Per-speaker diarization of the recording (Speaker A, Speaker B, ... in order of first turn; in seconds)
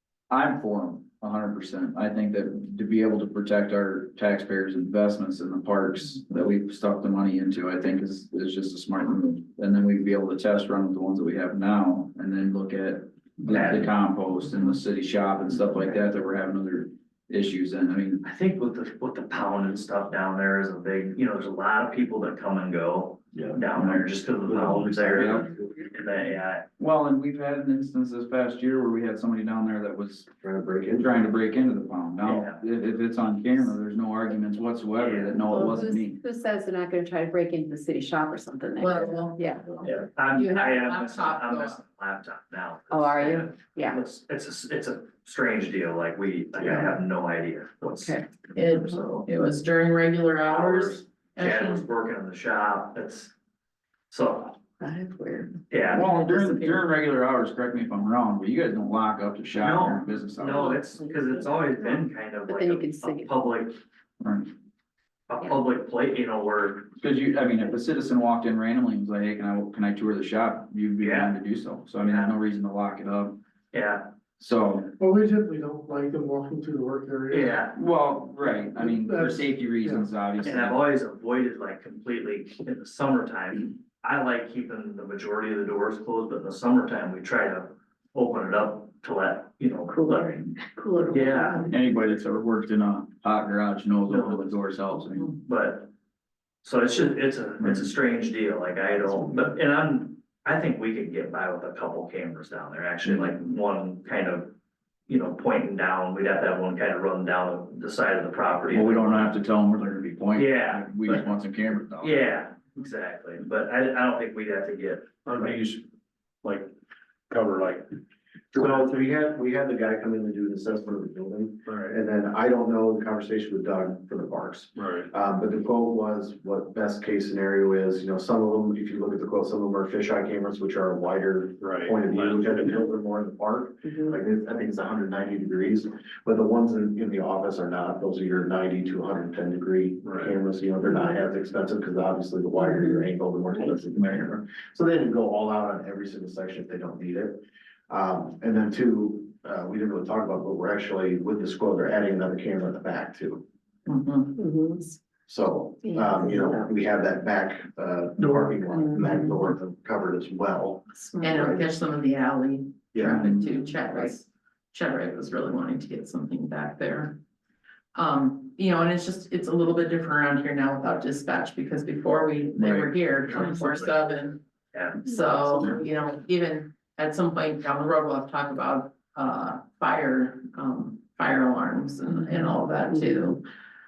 Speaker A: 0.3-18.2, 23.4-24.0, 25.1-25.5, 26.8-30.3, 30.9-36.2, 55.9-60.8, 64.2-64.5, 67.0-73.4, 74.4-74.9, 77.7-80.9, 91.7-95.3, 97.6-97.9, 108.7-112.2, 163.0-163.5, 172.6-172.9
Speaker B: 13.5-13.9, 18.2-26.7, 32.2-32.6, 35.0-35.6, 39.8-48.3, 50.5-53.3, 54.1-54.6, 55.7-56.1, 59.6-63.8, 65.3-66.9, 71.0-71.4, 72.0-72.4, 73.7-74.1, 77.3-77.8, 80.4-90.5, 91.1-91.7, 94.1-94.7, 95.3-95.9, 96.6-104.5, 105.1-109.3, 110.3-111.3, 112.0-115.1, 174.7-175.1
Speaker C: 24.5-25.7, 30.4-31.1, 118.5-153.4, 155.3-161.7, 162.9-163.2
Speaker D: 35.5-39.7, 42.9-44.0, 46.6-46.9, 48.0-48.3, 54.8-55.5, 60.6-63.3, 90.0-91.8, 133.9-134.1, 142.6-143.1, 154.4-154.8, 155.9-156.6, 159.0-159.3, 161.0-161.3, 163.5-163.9
Speaker E: 38.8-41.8, 48.5-51.9, 56.2-56.8, 153.9-154.9, 161.2-167.2, 167.9-174.4, 175.0-183.4
Speaker F: 75.0-77.6, 78.7-80.1
Speaker G: 115.2-115.9, 116.4-116.7, 117.3-117.9, 118.5-118.9, 121.7-122.0, 124.8-125.1, 131.6-132.8, 140.0-140.3